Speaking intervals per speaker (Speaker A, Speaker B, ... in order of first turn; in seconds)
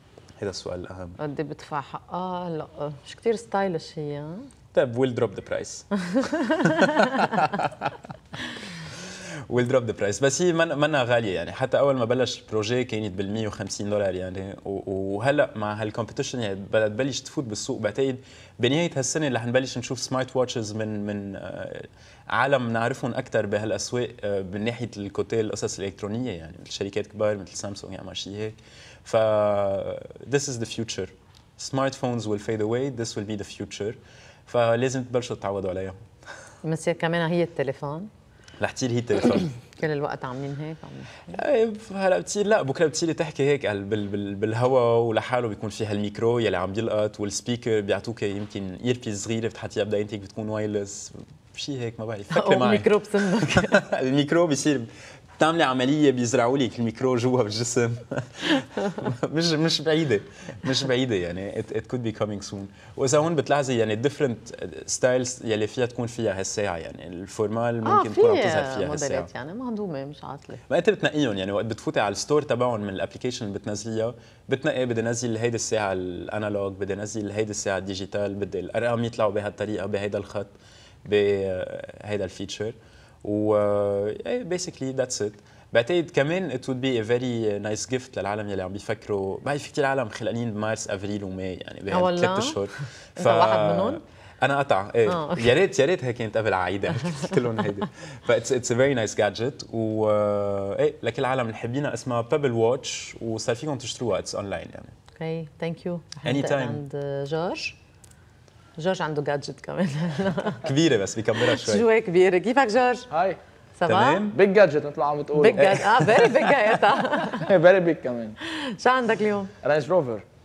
Speaker A: 0.4-1.2, 4.7-7.9, 8.9-36.0, 38.6-39.5, 41.3-69.3, 70.7-80.5, 81.0-104.9, 106.2-106.8, 110.6-111.9, 113.9-114.4, 115.6-116.8
Speaker B: 1.2-4.5, 6.2-7.4, 36.6-38.1, 39.6-41.4, 52.3-53.8, 67.8-70.6, 91.9-94.0, 95.1-95.5, 105.2-107.8, 108.8-110.6, 111.5-113.1, 113.8-114.2, 115.3-117.5, 118.4-119.5
Speaker C: 113.1-113.4, 114.3-115.8, 117.3-118.4, 119.6-120.2